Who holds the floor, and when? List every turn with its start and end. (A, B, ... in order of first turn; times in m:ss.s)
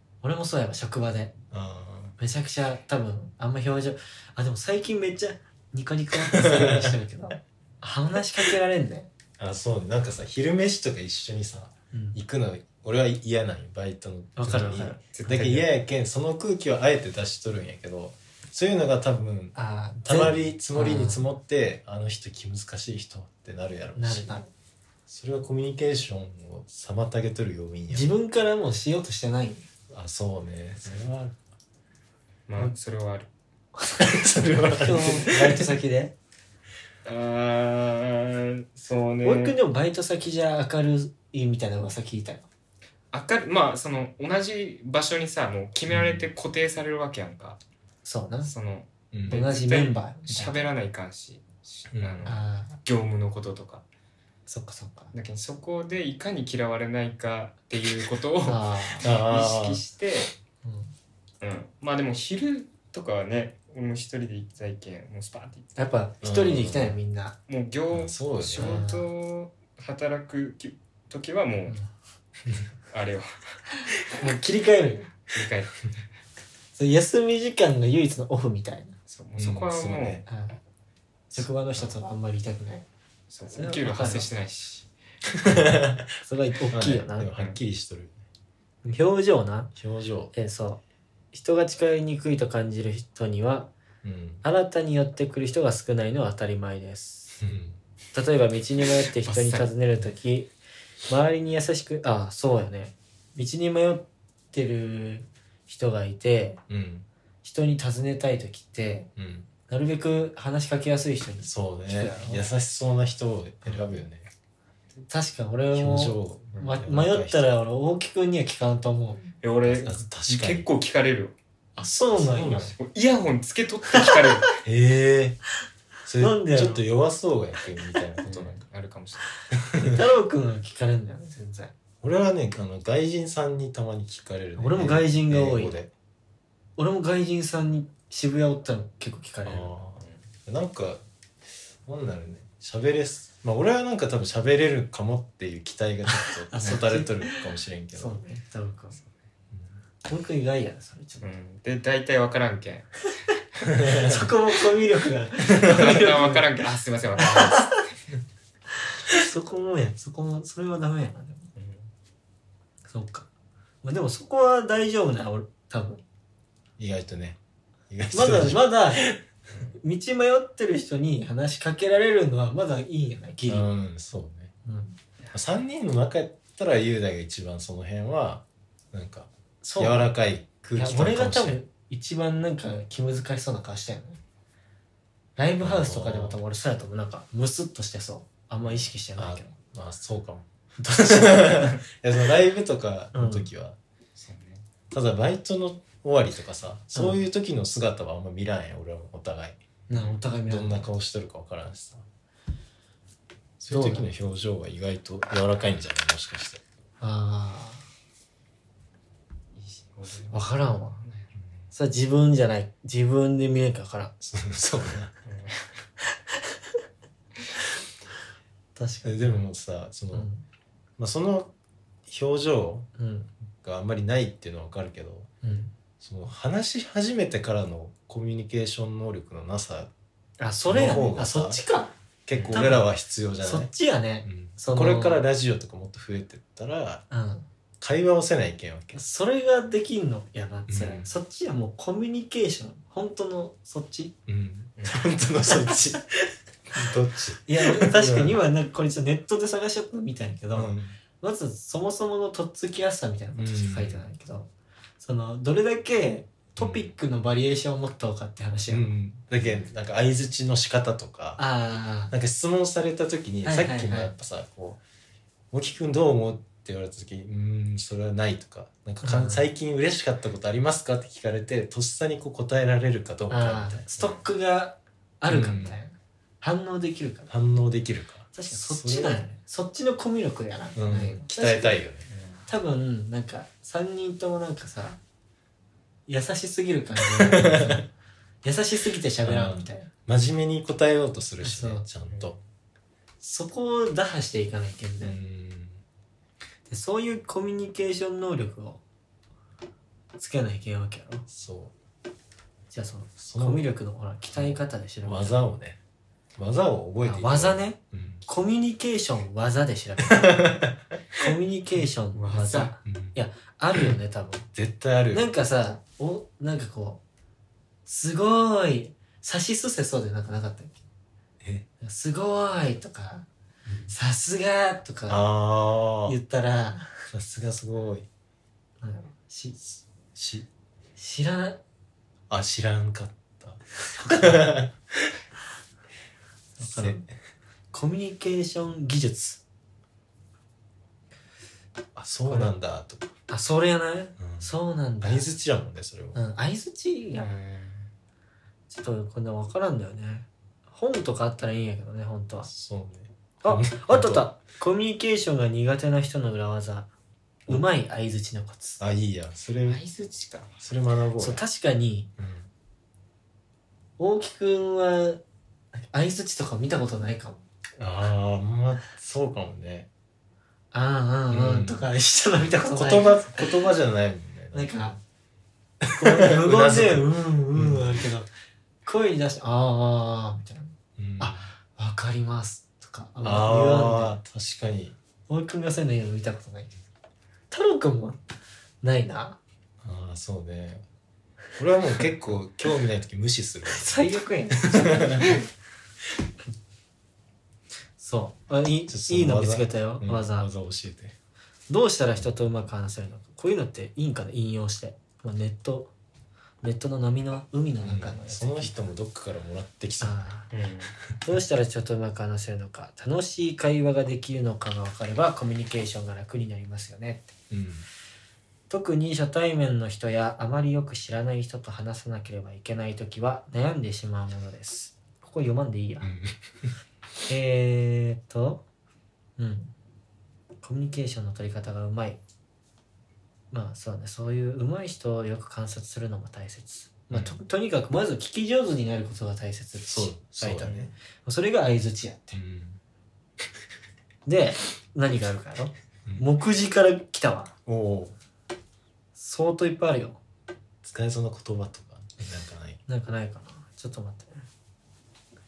0:00.2-0:01.3 A
0:01.5-0:02.2 B
0:02.2-0:09.1 A
0:06.1-0:07.0 B
0:09.4-0:24.4 B
0:11.9-0:12.2 A
0:14.4-0:15.0 A
0:15.1-0:15.7 C
0:19.6-0:21.2 A
0:24.0-0:24.5 A
0:25.1-0:28.1 B
0:27.9-0:29.7 A
0:29.9-0:31.4 B
0:32.5-0:33.3 C
0:34.0-0:35.7 B
0:34.8-0:36.2 A
0:37.0-0:39.6 C
0:39.2-0:42.5 A
0:43.1-0:47.6 C
0:45.9-0:46.3 B
0:48.0-0:48.5 A
0:48.4-0:53.8 C
0:49.1-0:49.4 B
0:49.3-0:50.7 A
0:51.9-0:52.3 B
0:52.2-0:52.8 A
0:54.5-0:55.1 A
0:55.1-1:00.3 C
0:58.4-0:59.1 A
0:59.0-0:59.8 B
1:00.6-1:00.9 A
1:01.4-1:05.8 C
1:05.8-1:07.4 A
1:06.2-1:07.0 B
1:07.5-1:11.8 C
1:07.9-1:08.8 B
1:08.6-1:09.1 A
1:12.9-1:13.4 C
1:14.1-1:15.1 A
1:15.3-1:15.9 C
1:16.8-1:19.0 A
1:19.1-1:20.2 C
1:19.4-1:20.2 B
1:20.3-1:20.6 A
1:21.3-1:22.9 A
1:21.4-1:21.9 B
1:23.3-1:24.9 C
1:23.5-1:24.3 A
1:25.4-1:26.2 B
1:26.2-1:27.3 A
1:26.7-1:28.2 B
1:28.8-1:29.7 A
1:29.8-1:30.3 B
1:30.3-1:30.8 A
1:31.3-1:33.7 A
1:34.0-1:34.4 B
1:34.4-1:37.4 A
1:37.4-1:37.8 B
1:38.1-1:40.5 A
1:39.2-1:39.7 C
1:41.1-1:46.6 A
1:46.7-1:47.1 B
1:47.4-1:49.1 A
1:49.2-1:49.5 B
1:49.7-1:52.5 A
1:51.4-1:54.3 B
1:55.1-1:59.3 A
1:55.7-1:57.5 B
1:59.4-2:01.4 C
1:59.6-2:00.7 B
2:01.8-2:02.8 B
2:01.8-2:02.7 A
2:02.8-2:04.6 C
2:03.9-2:04.5 A
2:04.6-2:05.4 B
2:06.1-2:08.6 B
2:06.2-2:06.8 A
2:08.2-2:09.3 C
2:09.7-2:10.0 B
2:09.8-2:11.7 A
2:12.0-2:15.9 B
2:14.6-2:15.8 A
2:16.8-2:19.7 A
2:19.4-2:21.0 B
2:21.8-2:28.2 B
2:26.1-2:29.0 A
2:30.1-2:31.3 A
2:31.2-2:33.1 C
2:33.6-2:34.3 B
2:33.8-2:36.4 A
2:35.4-2:36.1 B
2:35.6-2:37.9 C
2:37.2-2:37.8 A
2:38.8-2:41.5 A
2:41.6-2:41.9 C
2:42.9-2:43.3 A
2:43.8-2:46.0 A
2:46.8-2:47.4 B
2:47.9-2:49.2 B
2:48.1-2:49.1 A
2:49.8-2:53.7 A
2:53.4-2:54.5 B
2:54.6-2:55.0 A
2:55.3-3:01.6 B
2:59.6-3:00.1 A
3:00.8-3:04.2 A
3:05.4-3:09.5 A
3:05.6-3:06.4 B
3:09.2-3:13.8 B
3:10.8-3:11.8 A
3:13.1-3:13.5 A
3:14.2-3:14.6 C
3:14.9-3:22.0 B
3:16.9-3:17.2 A
3:19.9-3:20.8 A
3:23.6-3:26.6 B
3:23.7-3:24.1 A
3:27.0-3:27.8 A
3:29.5-3:31.3 C
3:30.3-3:31.0 A
3:31.7-3:34.1 A
3:34.2-3:35.1 B
3:35.2-3:35.6 C
3:38.8-3:39.4 A
3:39.0-3:40.3 B
3:40.1-3:40.4 A
3:41.0-3:41.5 B
3:42.1-3:42.9 B
3:43.0-3:43.3 A
3:43.6-3:45.3 B
3:45.4-3:45.7 A
3:46.0-3:49.9 B
3:50.4-3:51.9 A
3:50.7-3:51.6 B
3:52.3-3:53.7 B
3:52.3-3:52.7 C
3:52.5-3:52.9 A
3:53.4-3:55.2 A
3:54.2-3:57.0 B
3:57.1-3:57.4 A
3:57.8-3:59.0 B
3:58.9-4:04.2 A
4:00.7-4:01.1 B
4:04.3-4:08.4 B
4:04.8-4:05.0 C
4:07.4-4:14.5 A
4:10.5-4:11.0 B
4:13.3-4:14.1 B
4:15.0-4:18.9 A
4:16.6-4:16.9 B
4:18.7-4:21.4 B
4:21.4-4:22.1 A
4:22.1-4:24.8 B
4:23.4-4:24.1 A
4:25.5-4:33.9 B
4:29.0-4:29.5 A
4:33.3-4:37.3 A
4:35.3-4:35.8 B
4:37.3-4:39.2 B
4:38.3-4:41.8 A
4:40.8-4:42.1 B
4:42.1-4:42.4 C
4:42.5-4:45.0 A
4:46.1-4:47.8 A
4:47.0-4:47.9 B
4:48.4-4:49.9 A
4:49.2-4:52.4 B
4:51.4-4:51.8 A
4:52.1-4:52.4 C
4:53.2-4:55.2 A
4:55.0-4:55.8 B
4:56.7-4:58.8 A
5:00.2-5:01.3 A
5:01.3-5:01.7 B
5:02.7-5:05.4 A
5:03.2-5:03.7 B
5:04.3-5:05.8 B
5:06.4-5:08.2 B
5:07.0-5:10.5 A
5:10.0-5:11.2 B
5:11.2-5:14.5 A
5:12.1-5:12.7 C
5:12.8-5:13.2 B
5:14.5-5:15.3 B
5:15.1-5:17.0 A
5:17.8-5:20.8 A
5:21.4-5:21.7 B
5:21.8-5:23.3 A
5:23.9-5:25.2 A
5:25.1-5:26.2 B
5:26.1-5:26.9 A
5:27.1-5:28.1 B
5:28.8-5:29.6 A
5:29.7-5:30.5 B
5:31.0-5:31.6 A
5:32.3-5:35.1 B
5:33.8-5:34.6 A
5:36.6-5:37.0 A
5:36.6-5:37.1 B
5:37.7-5:39.4 A
5:41.9-5:43.1 B
5:42.3-5:42.5 A
5:43.3-5:45.3 A
5:44.2-5:44.5 B
5:45.0-5:46.2 B
5:46.2-5:47.3 A
5:47.2-5:47.9 C
5:48.7-5:52.5 A
5:52.4-5:54.3 B
5:53.4-5:56.9 A
5:57.5-5:58.8 A
5:58.8-5:59.8 B
5:59.7-6:00.6 C
6:00.6-6:01.4 B
6:01.2-6:02.1 A
6:02.2-6:02.5 B
6:04.0-6:05.2 A
6:05.9-6:07.4 A
6:07.8-6:09.9 B
6:10.7-6:13.4 A
6:11.3-6:11.8 B
6:12.6-6:14.9 B
6:14.5-6:15.0 A
6:15.8-6:18.0 B
6:16.0-6:18.3 A
6:18.8-6:24.2 A
6:21.0-6:21.5 B
6:23.2-6:25.0 B
6:25.3-6:26.7 A
6:27.5-6:28.2 A
6:28.8-6:29.4 A
6:29.8-6:30.8 B
6:31.6-6:34.0 B
6:33.7-6:35.4 A
6:34.7-6:35.4 B
6:38.0-6:40.5 A
6:38.9-6:41.2 B
6:41.7-6:45.9 A
6:46.6-6:48.7 A
6:47.8-6:50.2 B
6:50.0-6:50.5 A
6:50.5-6:51.0 C
6:51.2-6:57.3 A
6:57.5-6:57.8 B
6:58.7-7:06.1 A
7:06.0-7:06.7 B
7:07.3-7:08.6 A
7:09.4-7:09.7 A
7:10.6-7:12.2 A
7:13.5-7:22.4 A
7:17.1-7:17.4 B
7:19.9-7:20.9 B
7:22.3-7:22.8 B
7:24.3-7:27.5 A
7:27.7-7:28.2 B
7:29.2-7:30.2 A
7:30.8-7:32.8 B
7:32.9-7:34.4 A